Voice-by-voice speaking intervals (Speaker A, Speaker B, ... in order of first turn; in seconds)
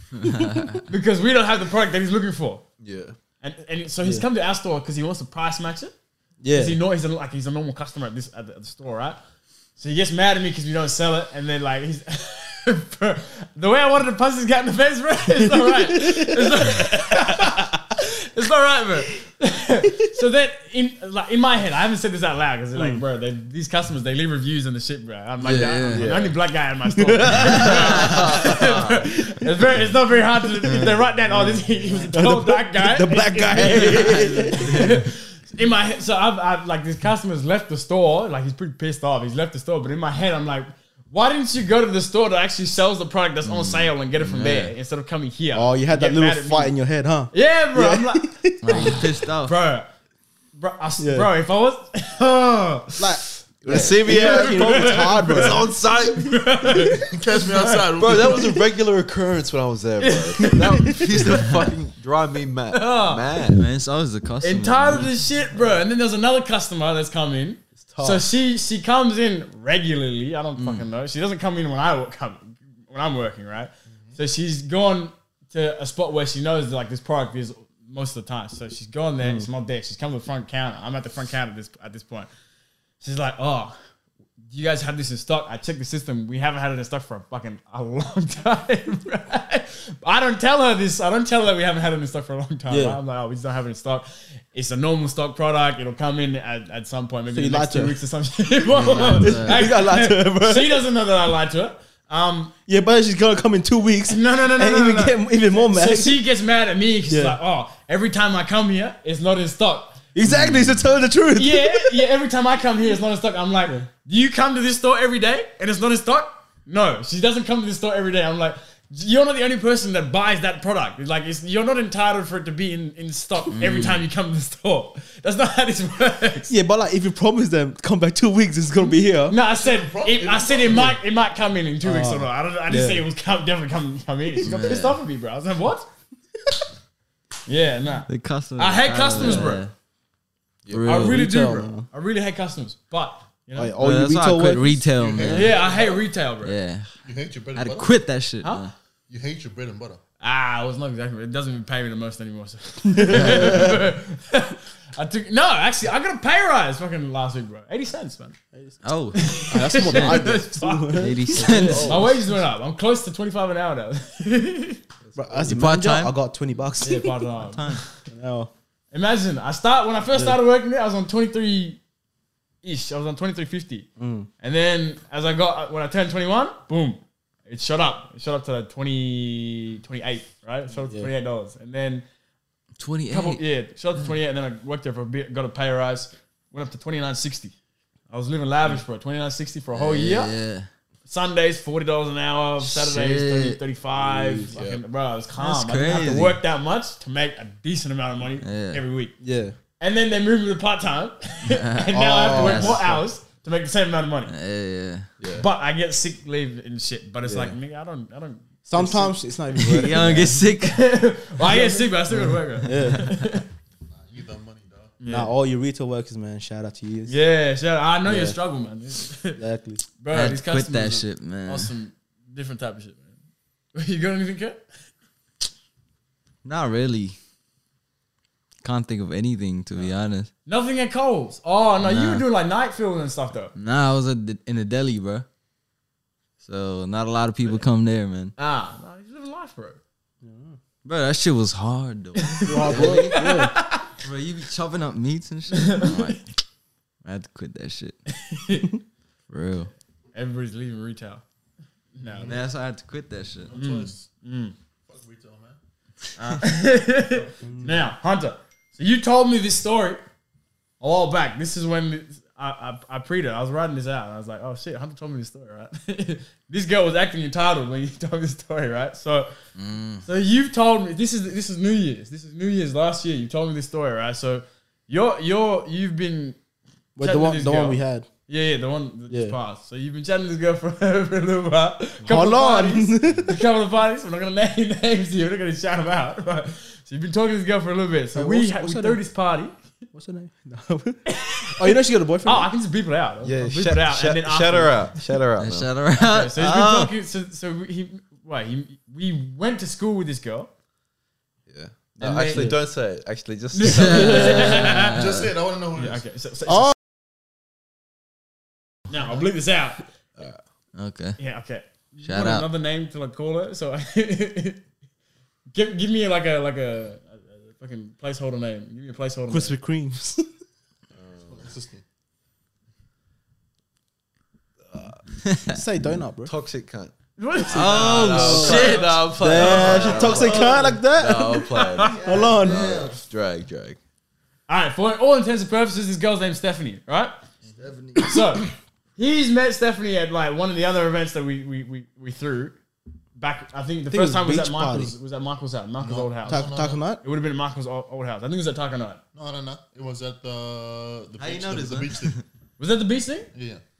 Speaker A: 0.3-0.7, 25.4-26.1, 27.3-28.4, 33.7-35.0, 43.5-44.7, 48.6-49.5, 61.2-61.7, 63.5-65.1, 70.6-70.9, 98.7-99.7, 110.3-110.8, 123.5-124.0, 134.4-135.0, 138.1-139.7, 140.7-141.2, 143.8-145.6, 146.4-146.9, 147.5-148.7, 153.0-153.8, 158.8-160.3, 161.0-162.1, 165.5-166.2, 167.4-167.9, 182.8-183.4, 189.7-190.7, 192.6-193.6, 195.4-196.4, 198.4-198.8, 201.5-202.8, 204.3-205.1, 209.6-210.8, 212.8-213.2, 220.1-221.7, 226.4-227.2, 228.6-230.3, 231.8-232.2, 233.6-235.2, 236.4-238.3, 240.8-243.4, 244.0-246.3, 247.0-248.0, 249.3-249.7, 252.2-253.5, 269.6-270.0, 295.4-296.9, 303.6-305.3, 310.8-311.2, 312.0-312.5, 325.2-325.6, 327.5-330.6, 332.0-332.9, 351.2-352.2
Speaker B: 0.9-2.6, 3.4-5.9, 6.5-9.2, 9.8-46.7, 47.3-49.9, 50.5-53.4, 54.0-58.4, 60.0-61.0, 62.7-63.3, 64.4-82.3, 83.0-83.7, 84.5-102.5, 104.1-110.0, 111.3-126.5, 129.3-135.8, 137.4-139.6, 140.8-143.7, 145.2-146.6, 150.2-158.3, 159.1-164.8, 166.8-167.9, 168.9-171.8, 172.6-173.9, 174.4-182.0, 183.1-187.5, 188.1-190.3, 191.1-199.1, 199.8-204.3, 205.3-209.9, 210.6-213.4, 215.0-215.3, 217.1-219.4, 220.0-223.1, 223.7-224.6, 230.4-233.5, 238.4-239.8, 242.1-243.9, 245.5-246.2, 248.1-248.7, 250.1-251.2, 251.9-252.3, 253.5-254.5, 256.2-260.0, 260.8-269.3, 270.0-276.4, 277.0-289.5, 291.1-294.9, 296.0-300.5, 302.0-302.6, 303.5-305.0, 305.8-306.7, 308.9-309.8, 311.2-314.6, 315.5-319.5, 327.2-329.8, 331.5-332.0, 334.5-337.1, 338.0-342.5, 343.2-346.5, 347.0-349.0, 352.6-353.3
Speaker C: 2.8-3.1, 25.9-26.3, 27.3-29.0, 53.6-56.4, 58.0-63.7, 67.8-68.2, 140.7-141.1, 161.4-162.2, 165.0-165.7, 194.5-194.8, 205.2-205.5, 207.2-207.5, 293.2-295.7, 301.5-304.7, 320.9-321.4, 324.7-325.0, 326.2-326.9, 327.5-333.8
Speaker D: 6.4-6.8, 15.4-17.4, 22.7-23.0, 27.0-27.8, 31.3-34.9, 45.5-49.0, 51.0-51.3, 53.0-55.6, 79.2-79.5, 92.7-93.0, 97.3-98.0, 99.2-100.8, 102.7-106.2, 107.1-107.4, 110.1-112.0, 126.5-129.3, 131.8-133.0, 139.2-139.4, 140.9-141.8, 143.6-144.8, 152.9-153.8, 158.5-162.1, 165.1-167.2, 168.0-168.5, 170.1-170.4, 174.0-174.3, 180.7-181.1, 199.2-199.6, 201.9-203.0, 208.7-210.4, 211.5-211.9, 212.6-213.1, 215.1-217.1, 218.1-218.4, 219.3-219.8, 240.2-240.6, 242.4-243.5, 257.4-257.9, 276.9-278.1, 279.1-279.4, 282.0-283.4, 288.1-289.0, 289.9-291.0, 291.6-292.5, 319.3-320.2, 325.5-326.3, 328.5-331.5, 332.0-332.9, 343.9-344.9, 346.3-347.0
Speaker E: 57.0-58.6, 129.5-131.0, 144.9-146.0, 147.0-147.9, 149.1-150.0, 214.0-214.9, 252.1-252.4, 253.5-254.1, 254.9-255.6, 304.8-306.0, 321.2-321.8, 337.4-337.9, 345.8-346.8, 349.1-352.2, 353.3-353.6